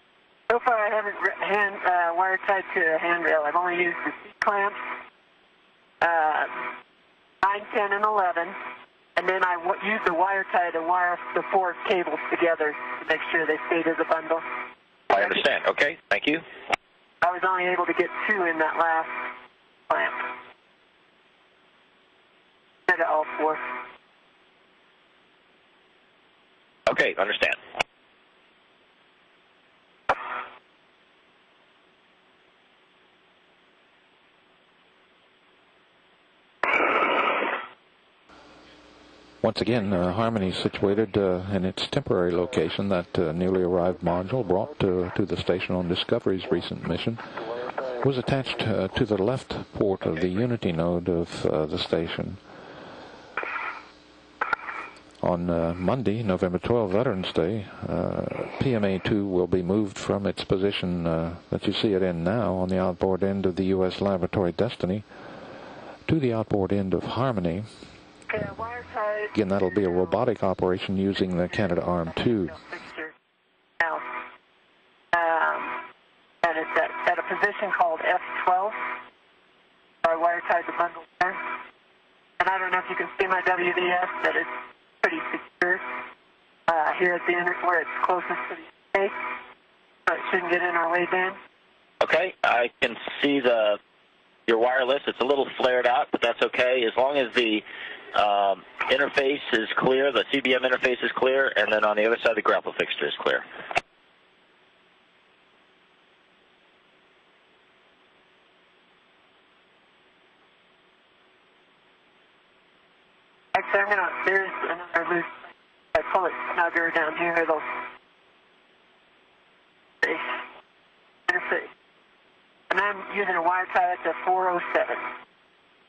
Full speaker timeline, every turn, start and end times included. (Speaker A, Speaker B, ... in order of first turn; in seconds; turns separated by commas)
Speaker A: 0.5-4.8, Speaker A: 6.0-6.7, Speaker A: 7.4-8.6, Speaker A: 9.2-14.4, Speaker B: 15.1-16.4, Speaker A: 17.2-19.3, Speaker A: 19.9-20.3, Speaker A: 22.9-23.7, Speaker B: 26.9-27.6, Speaker C: 39.4-52.4, Speaker C: 55.2-65.2, Speaker C: 66.0-68.0, Speaker A: 68.3-70.2, Speaker C: 69.3-72.6, Speaker A: 71.1-73.1, Speaker A: 75.1-75.8, Speaker A: 76.4-78.8, Speaker A: 80.0-81.4, Speaker A: 82.4-85.8, Speaker A: 86.7-89.2, Speaker A: 90.1-91.4, Speaker B: 92.0-93.8, Speaker B: 94.5-103.4, Speaker A: 113.5-117.6, Speaker A: 120.0-120.4, Speaker A: 121.3-121.7, Speaker A: 122.7-125.0